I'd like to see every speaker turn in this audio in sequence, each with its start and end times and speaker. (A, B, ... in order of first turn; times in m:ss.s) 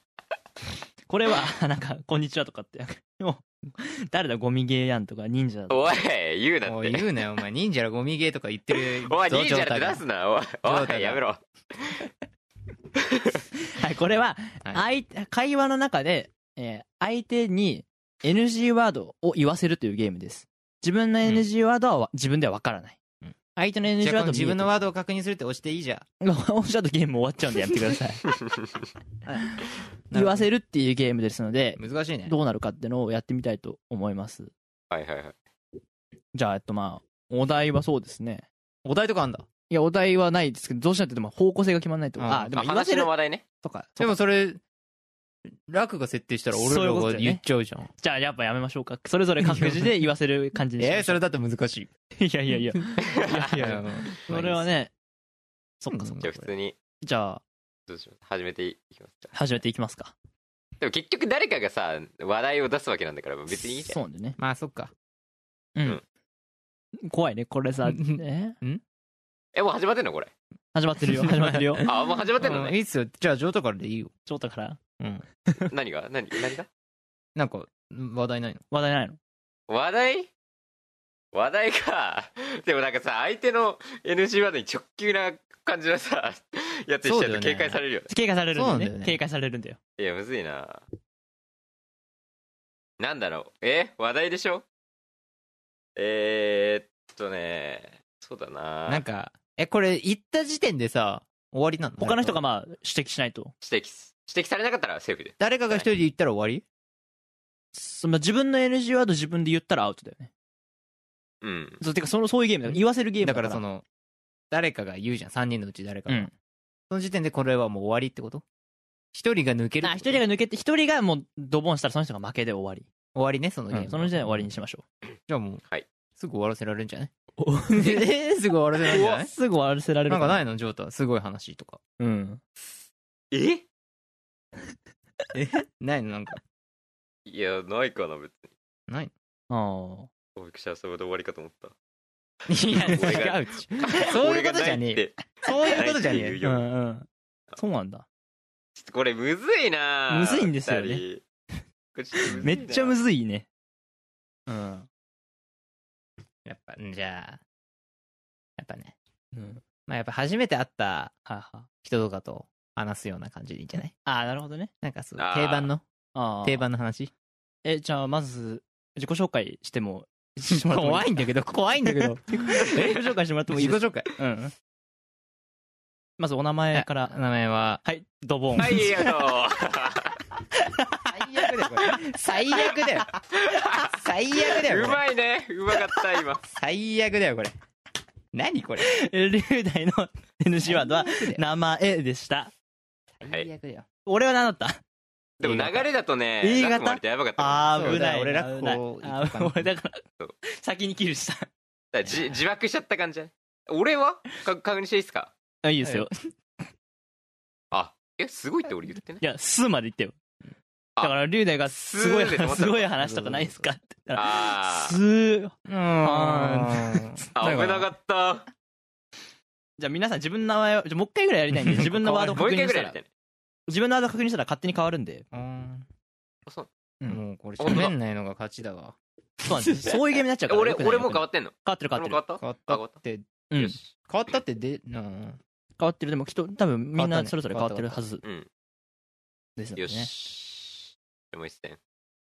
0:01.1-0:06.0 A
0:05.7-0:07.0 B
0:06.6-0:10.0 C
0:08.9-0:12.0 B
0:10.6-0:11.2 C
0:13.6-0:23.0 A
0:23.2-0:26.0 C
0:23.6-0:24.7 A
0:26.2-0:28.3 A
0:29.2-0:29.6 A
0:30.1-0:30.5 C
0:30.1-0:34.5 A
0:31.8-0:32.3 C
0:34.9-0:35.3 B
0:36.3-0:38.4 A
0:38.8-0:39.5 C
0:39.7-0:44.2 A
0:42.2-0:42.5 C
0:42.5-0:43.4 B
0:44.0-0:44.6 C
0:45.5-0:47.9 C
0:46.5-0:47.4 A
0:48.0-0:51.2 A
0:49.4-0:49.9 C
0:50.8-0:51.9 C
0:52.2-0:54.9 A
0:53.0-0:53.4 B
0:53.3-0:54.7 C
0:55.8-0:56.5 A
0:55.9-0:56.2 C
0:56.2-0:56.8 B
0:57.0-0:57.4 A
0:57.9-0:59.3 B
0:59.3-1:00.1 A
1:00.8-1:04.0 B
1:03.9-1:04.4 A
1:04.4-1:04.9 C
1:07.0-1:08.6 A
1:07.9-1:08.8 C
1:09.5-1:10.3 B
1:10.7-1:11.8 A
1:11.1-1:14.1 C
1:11.8-1:12.7 B
1:14.2-1:14.8 A
1:15.0-1:15.2 C
1:15.7-1:16.7 B
1:17.4-1:18.6 C
1:18.7-1:19.2 A
1:19.7-1:20.3 B
1:21.3-1:28.1 B
1:27.0-1:27.8 C
1:28.1-1:29.8 A
1:28.5-1:29.2 C
1:30.0-1:30.8 B
1:33.0-1:34.6 B
1:36.0-1:39.0 B
1:38.9-1:42.4 C
1:42.0-1:43.5 A
1:43.6-1:45.9 B
1:45.4-1:46.6 C
1:47.7-1:50.3 A
1:51.4-1:51.8 B
1:51.8-1:53.6 A
1:52.7-1:53.8 C
1:54.5-1:56.3 C
1:56.9-1:58.4 C
1:59.1-2:00.2 C
1:59.8-2:02.9 A
2:03.1-2:04.5 C
2:03.7-2:04.8 A
2:05.3-2:05.6 C
2:06.2-2:07.1 C
2:07.4-2:08.1 A
2:07.7-2:09.3 C
2:08.9-2:10.4 A
2:10.1-2:11.8 C
2:12.0-2:12.4 A
2:13.3-2:13.6 B
2:15.3-2:16.4 C
2:17.2-2:18.5 B
2:19.5-2:20.1 A
2:20.3-2:21.7 B
2:22.5-2:26.4 C
2:22.7-2:24.0 A
2:22.8-2:26.7 B
2:26.4-2:28.0 A
2:28.8-2:31.2 B
2:30.1-2:31.0 A
2:31.9-2:32.9 B
2:32.3-2:33.5 A
2:34.5-2:34.9 A
2:36.4-2:37.4 C
2:38.6-2:39.0 C
2:39.3-2:39.6 A
2:39.9-2:41.1 C
2:41.2-2:41.7 A
2:41.8-2:43.9 C
2:44.0-2:44.7 A
2:44.8-2:45.8 C
2:45.2-2:45.7 B
2:46.1-2:46.6 A
2:46.4-2:47.1 C
2:47.6-2:51.1 A
2:50.5-2:54.1 C
2:51.8-2:54.5 A
2:56.2-2:57.2 A
2:56.7-2:57.8 C
2:57.8-2:59.1 A
2:58.6-3:00.2 B
3:00.5-3:02.2 A
3:01.1-3:03.1 C
3:03.4-3:03.9 B
3:03.8-3:05.0 C
3:04.5-3:06.4 B
3:06.5-3:07.5 C
3:08.3-3:08.9 C
3:08.8-3:12.5 A
3:10.6-3:11.5 C
3:13.2-3:13.9 C
3:14.0-3:14.8 A
3:15.4-3:18.0 B
3:15.4-3:15.8 A
3:16.4-3:21.5 A
3:17.7-3:19.7 C
3:21.9-3:25.3 B
3:25.6-3:26.1 A
3:25.8-3:26.1 C
3:27.7-3:29.2 B
3:29.2-3:30.2 A
3:31.0-3:32.9 B
3:31.0-3:37.2 A
3:33.0-3:33.7 C
3:34.1-3:35.0 B
3:35.6-3:37.9 C
3:37.3-3:38.5 B
3:39.8-3:43.0 A
3:41.8-3:43.0 B
3:43.7-3:45.2 A
3:45.3-3:45.9 C
3:47.0-3:47.8 A
3:47.1-3:49.0 C
3:47.6-3:47.9 B
3:49.4-3:52.2 A
3:50.5-3:53.0 B
3:52.4-3:53.3 C
3:53.5-3:53.8 A
3:53.6-3:53.8 B
3:54.1-3:55.4 C
3:55.8-3:58.2 A
3:56.9-3:58.0 C
3:58.2-3:58.5 B
3:59.6-4:00.1 A
3:59.8-4:01.8 B